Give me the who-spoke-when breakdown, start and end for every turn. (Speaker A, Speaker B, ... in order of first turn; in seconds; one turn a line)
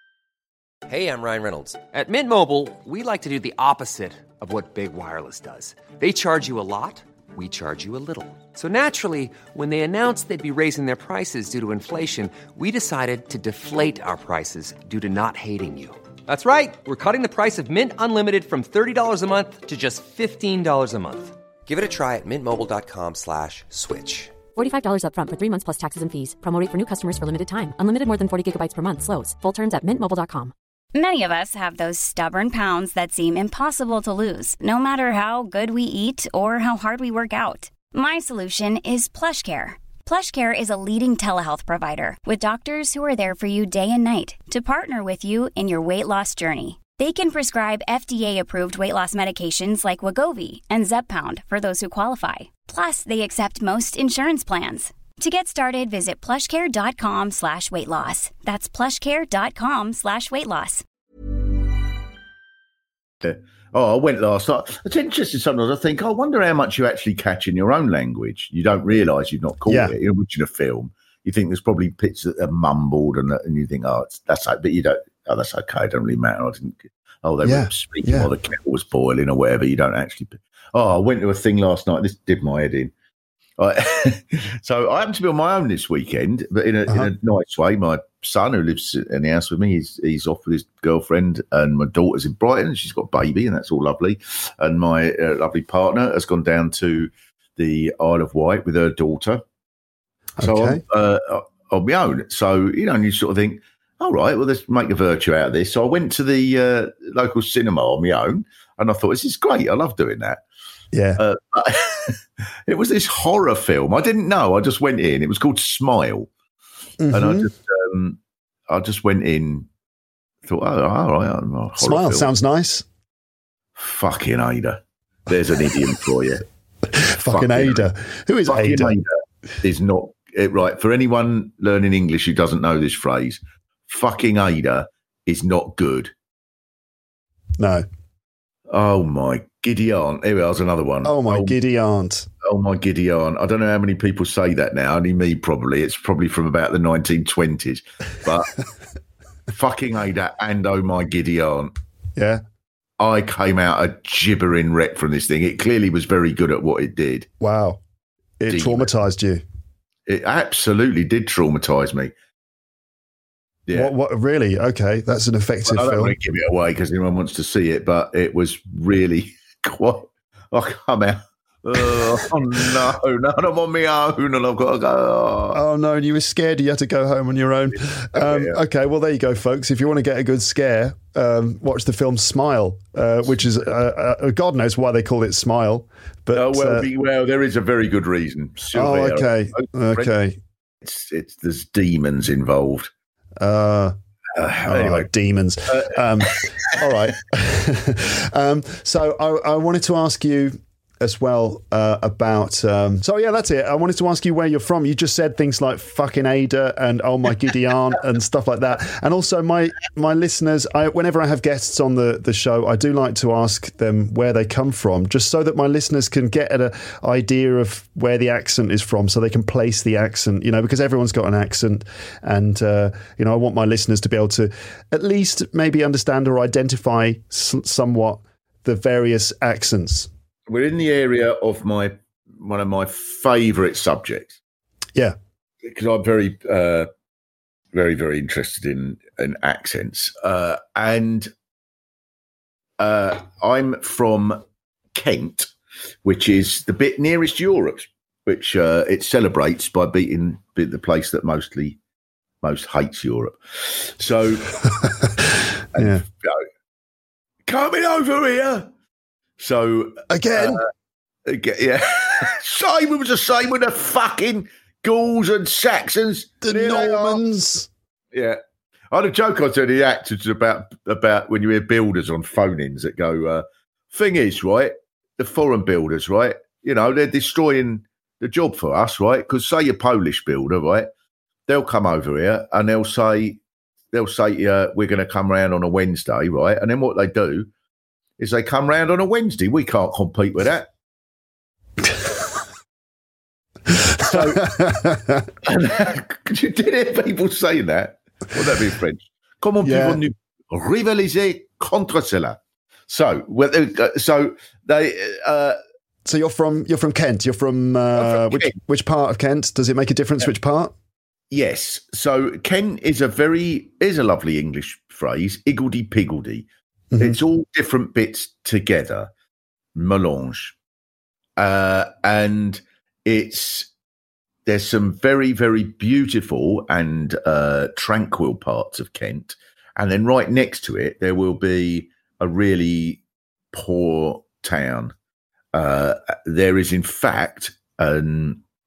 Speaker A: 0.9-24.4
Speaker B: 24.5-30.5
Speaker C: 30.9-60.9
Speaker D: 63.2-82.9
Speaker E: 69.7-69.9
Speaker E: 77.4-78.3
Speaker D: 83.6-99.4
Speaker E: 100.4-100.8
Speaker D: 100.4-110.4
Speaker E: 110.9-111.2
Speaker D: 111.2-116.3
Speaker E: 117.0-117.5
Speaker D: 117.1-119.7
Speaker D: 120.5-122.3
Speaker E: 121.8-122.8
Speaker D: 123.8-126.4
Speaker E: 126.9-129.0
Speaker D: 127.3-127.9
Speaker D: 128.5-136.1
Speaker E: 137.6-137.9
Speaker D: 138.7-141.6
Speaker E: 141.0-142.3
Speaker D: 142.4-148.6
Speaker D: 149.5-151.7
Speaker E: 152.2-152.4
Speaker D: 153.0-157.3
Speaker E: 157.4-157.8
Speaker E: 158.4-159.4
Speaker D: 158.5-158.9
Speaker D: 160.1-162.1
Speaker D: 163.7-163.9
Speaker E: 163.7-166.2
Speaker D: 165.7-175.6
Speaker E: 175.5-186.9
Speaker D: 178.1-178.6
Speaker D: 186.3-190.1
Speaker E: 188.7-190.4
Speaker D: 190.8-192.9
Speaker E: 193.4-193.9
Speaker D: 194.3-195.1
Speaker E: 194.6-230.1
Speaker D: 195.7-196.8
Speaker D: 230.5-234.4
Speaker D: 235.6-236.9
Speaker D: 237.7-241.3
Speaker D: 242.8-244.4
Speaker D: 244.9-245.5
Speaker D: 246.0-251.8
Speaker D: 252.4-254.6
Speaker E: 254.7-256.1
Speaker D: 255.8-256.4
Speaker D: 257.5-258.7
Speaker D: 259.4-260.7
Speaker E: 260.1-260.6
Speaker D: 261.3-267.2
Speaker E: 266.4-267.7
Speaker D: 268.1-268.4
Speaker D: 268.9-280.9
Speaker D: 281.5-283.4
Speaker D: 283.9-287.5
Speaker D: 288.2-290.7
Speaker E: 293.7-295.3
Speaker D: 294.0-294.5
Speaker D: 295.4-302.4
Speaker E: 299.6-300.0
Speaker D: 302.9-305.6
Speaker E: 306.1-310.7
Speaker D: 308.0-308.6
Speaker D: 311.3-316.5
Speaker E: 316.9-317.2
Speaker D: 317.0-319.1
Speaker D: 319.8-320.6
Speaker D: 321.4-323.7
Speaker D: 324.5-333.0
Speaker D: 333.5-334.9
Speaker D: 335.5-338.4